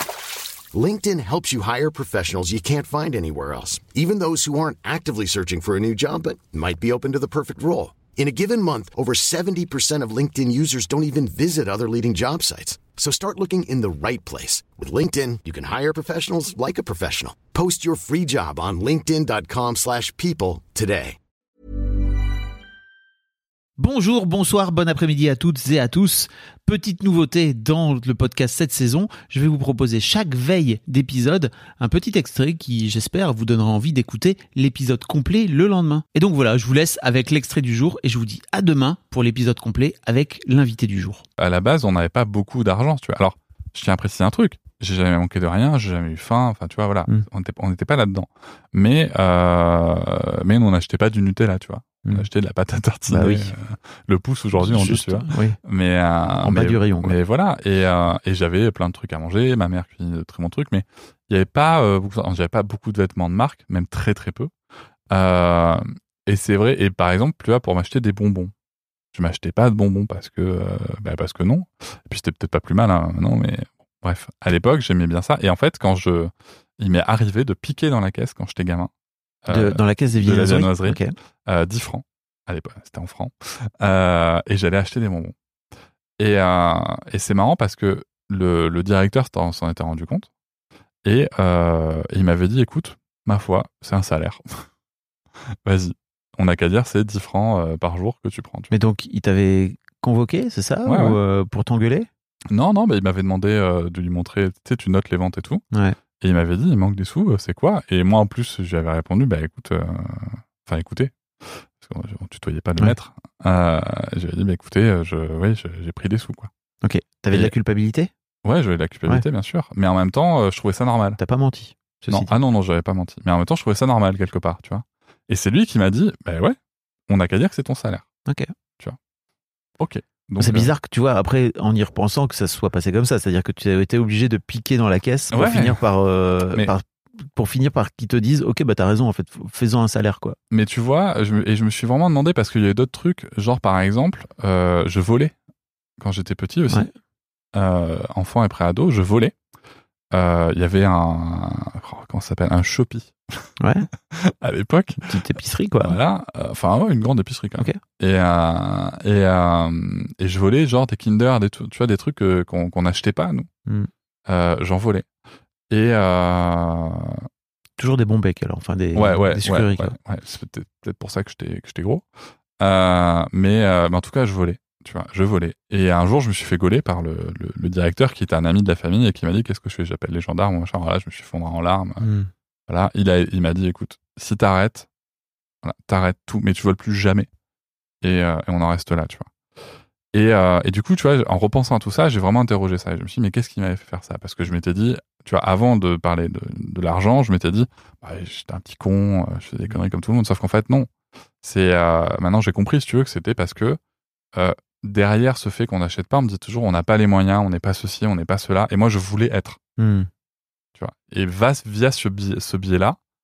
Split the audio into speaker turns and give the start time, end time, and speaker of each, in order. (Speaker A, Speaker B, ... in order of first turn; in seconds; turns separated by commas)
Speaker A: 0.7-21.2, Speaker B: 23.8-41.2, Speaker C: 41.4-64.5, Speaker B: 53.1-53.5, Speaker B: 54.6-55.6, Speaker B: 56.4-57.2, Speaker C: 65.1-68.5, Speaker C: 69.1-78.9, Speaker C: 79.4-85.3, Speaker B: 79.5-81.1, Speaker C: 86.2-90.3, Speaker C: 91.0-94.6, Speaker C: 95.6-98.7, Speaker B: 98.7-102.1, Speaker C: 100.8-101.2, Speaker C: 102.5-105.6, Speaker B: 105.7-106.0, Speaker C: 106.2-116.5, Speaker B: 116.8-118.1, Speaker C: 118.4-121.2, Speaker B: 121.2-122.3, Speaker C: 122.1-126.5, Speaker C: 127.1-128.1, Speaker B: 128.3-128.5, Speaker C: 129.8-130.7, Speaker B: 130.4-136.8, Speaker C: 135.3-135.8, Speaker B: 137.3-140.3, Speaker C: 140.5-145.3, Speaker C: 146.0-146.9, Speaker C: 147.5-149.3, Speaker C: 150.1-163.5, Speaker B: 153.6-153.9, Speaker B: 155.0-156.0, Speaker C: 164.3-165.1, Speaker C: 165.7-167.3, Speaker B: 167.8-169.9, Speaker C: 168.9-172.1, Speaker C: 172.6-182.1, Speaker B: 182.0-182.3, Speaker C: 182.7-184.9, Speaker C: 185.6-187.3, Speaker C: 188.0-200.9, Speaker C: 201.4-203.8, Speaker C: 204.3-209.6, Speaker B: 209.8-210.1, Speaker C: 210.7-213.0